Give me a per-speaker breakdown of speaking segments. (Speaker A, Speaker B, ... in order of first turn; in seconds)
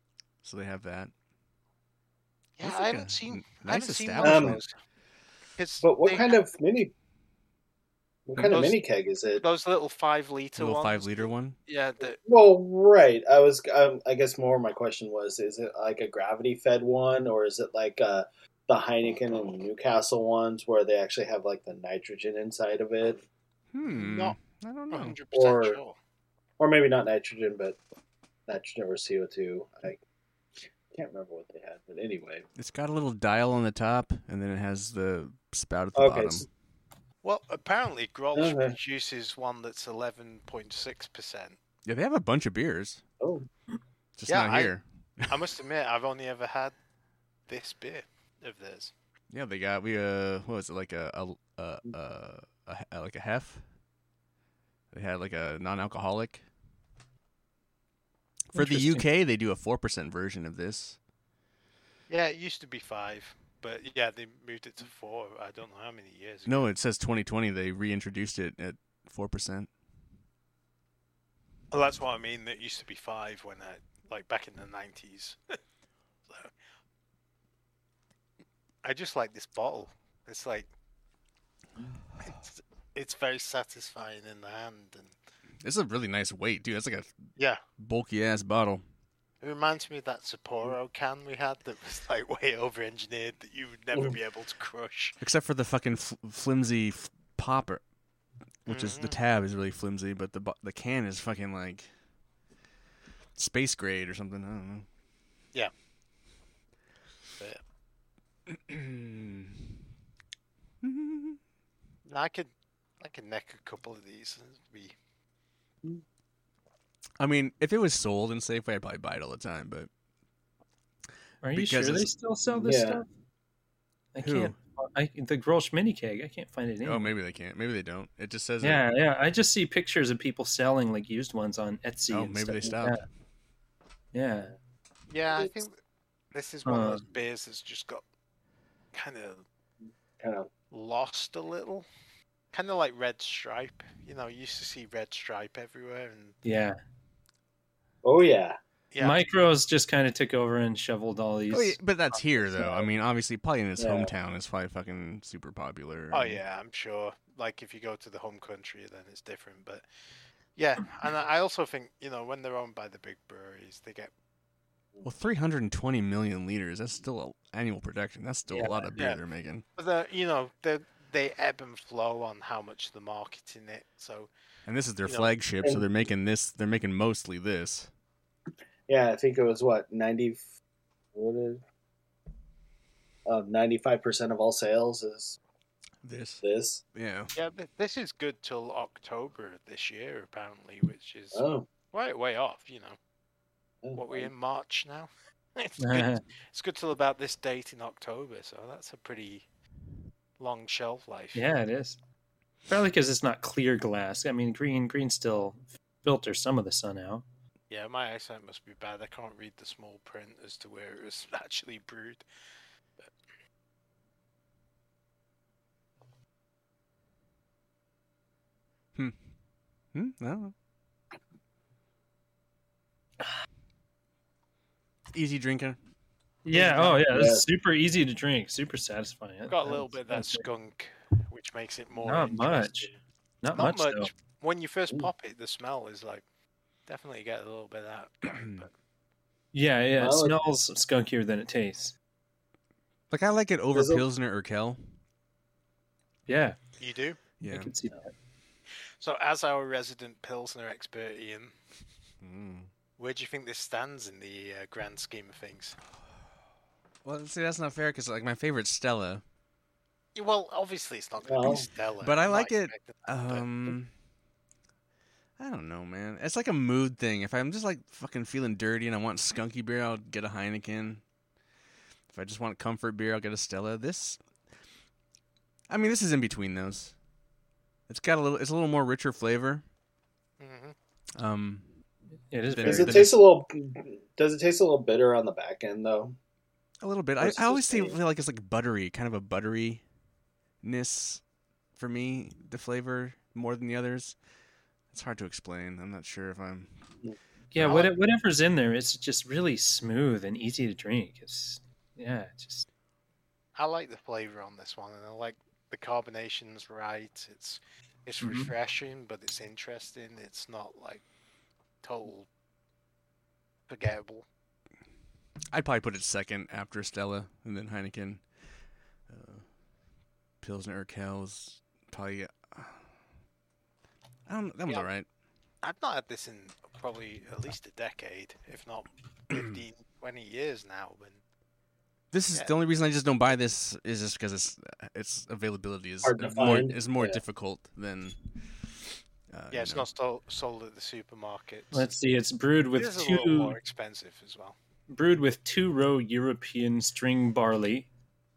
Speaker A: 0.4-1.1, 2.6-4.6, 10.6-11.6, 23.7-25.2, 32.6-36.5, 41.9-43.0, 44.2-45.4, 49.3-53.6, 54.9-56.4, 58.5-61.0, 66.5-69.7, 85.6-87.2, 87.8-88.8, 95.2-97.8, 98.7-101.9, 103.4-104.9, 108.5-109.8, 110.8-111.4, 117.2-119.9, 121.5-122.1, 124.2-124.5, 126.8-128.8, 132.1-133.0, 151.5-156.4, 165.0-169.6, 174.7-177.9, 186.0-186.4, 186.9-187.3, 219.9-220.5, 225.1-225.8, 238.3-238.7, 243.1-244.8, 247.4-247.7, 252.2-252.7, 257.1-259.2, 262.0-263.9, 265.4-271.0, 272.1-274.2, 275.7-276.9, 277.9-279.6, 281.2-281.7, 282.5-283.2, 286.8-289.8, 290.6-291.2, 291.8-294.2, 294.9-296.7, 297.6-297.9, 315.5-318.2, 319.1-319.5, 320.4-322.8, 324.3-325.1, 329.3-329.6, 332.1-338.2, 339.3-339.9
Speaker B: 2.6-4.7, 5.6-6.4, 8.5-8.8, 9.4-12.2, 23.9-24.4, 24.9-26.0, 37.2-41.6, 44.3-44.7, 45.3-46.7, 47.5-48.9, 62.1-66.7, 71.7-75.4, 78.8-80.7, 82.2-85.1, 89.4-95.2, 98.7-99.2, 112.1-115.0, 135.1-135.8, 136.3-138.0, 138.9-139.4, 140.7-141.9, 142.5-146.4, 148.9-149.2, 156.1-159.8, 160.6-164.1, 169.8-174.3, 187.3-193.0, 193.9-199.5, 200.4-201.4, 207.7-212.2, 229.5-232.9, 233.6-236.2, 236.9-238.7, 246.8-247.2, 249.0-251.5, 253.0-255.8, 260.1-263.5, 280.4-280.8, 303.6-311.0, 311.8-312.3, 313.7-314.2, 325.6-331.2, 339.5-341.9, 342.8-344.6
Speaker C: 4.2-4.6, 5.8-6.9, 8.3-9.4, 12.3-23.2, 25.3-25.8, 26.6-27.8, 28.5-30.0, 30.9-32.5, 36.0-36.5, 38.4-38.8, 43.2-43.5, 122.5-123.0, 135.3-135.6, 140.2-140.5, 148.0-148.6, 152.2-152.9, 153.8-154.1, 168.6-169.2, 178.9-180.5, 181.2-181.6, 183.3-185.4, 186.4-186.8, 191.3-191.7, 193.8-194.3, 226.5-227.5, 240.0-240.4, 243.7-244.0, 261.2-261.7, 282.6-286.2, 287.2-288.0, 336.1-337.2
Speaker D: 58.5-59.1, 121.4-123.1, 124.1-127.1, 128.6-133.0, 134.1-134.5, 136.7-137.1, 146.4-146.8, 149.0-151.8, 195.8-196.2, 201.3-202.0, 202.7-207.2, 226.4-230.4, 232.0-232.9, 233.4-234.1, 239.5-242.0, 246.3-246.6, 247.4-248.1, 282.3-283.1, 297.5-302.7, 308.2-308.5, 341.7-343.6, 344.9-347.9